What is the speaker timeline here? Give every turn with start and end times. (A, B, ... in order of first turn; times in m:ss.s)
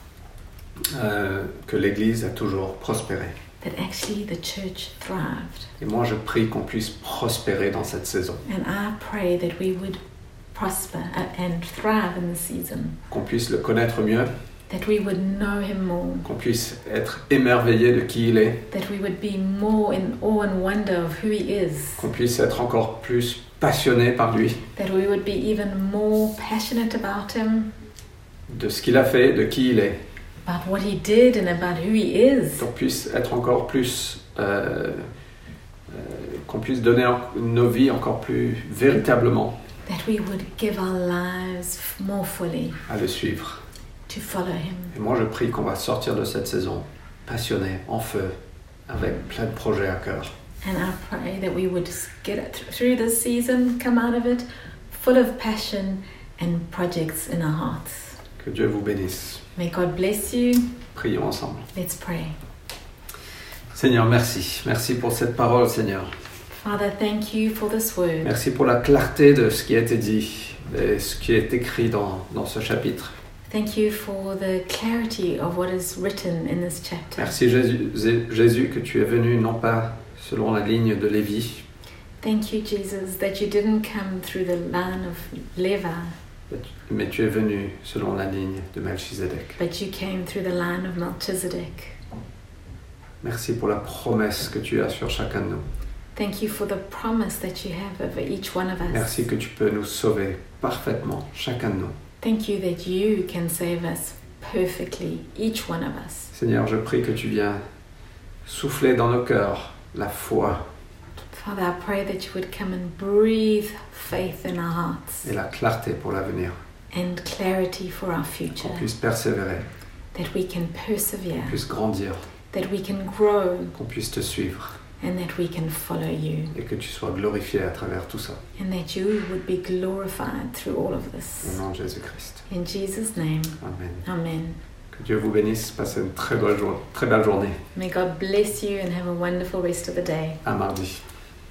0:00.9-0:03.4 A
0:03.6-0:05.7 B
0:05.8-0:08.4 A
0:08.5-0:10.0 B
0:10.5-0:13.0 B
0:13.1-0:14.3 A
0:14.7-0:16.3 B
0:16.2-0:18.6 A
0:18.7-0:22.0 B
0:22.0-0:24.6 A
0:24.8-0:27.7 B
0:28.5-0:30.0 A
0:30.5-0:32.7 B
0:32.6-0:35.1 A
0:35.9-0:39.6 A
0:39.9-0:42.8 B
0:42.9-0:43.6 A
0:44.1-0:45.0 B
0:44.9-0:48.3 A
0:48.9-0:50.3 A
0:50.6-0:58.2 B
0:58.4-0:59.4 A
0:59.6-1:00.7 B
1:01.0-1:01.7 A
1:01.7-1:02.4 B
1:03.7-1:06.1 A
1:06.5-1:08.3 B
1:08.2-1:13.1 A
1:13.5-1:17.3 B
1:17.2-1:21.6 A
1:22.2-1:26.1 B
1:26.5-1:29.6 A
1:29.6-1:32.0 B
1:33.2-1:35.6 A
1:36.2-1:39.1 B
1:38.9-1:41.9 A
1:42.2-1:46.3 B
1:46.3-1:47.6 A
1:48.5-1:50.6 A
1:51.3-1:55.3 B
1:55.2-1:56.5 A
1:56.9-1:58.9 B
1:58.6-1:59.7 A
2:00.1-2:01.6 B
2:01.4-2:02.2 A
2:02.5-2:03.8 B
2:03.8-2:04.8 A
2:05.0-2:06.5 B
2:06.5-2:08.4 A
2:08.6-2:11.6 B
2:11.4-2:12.4 A
2:12.5-2:14.6 B
2:13.6-2:14.0 A
2:14.9-2:17.6 A
2:17.8-2:20.4 B
2:20.4-2:21.0 A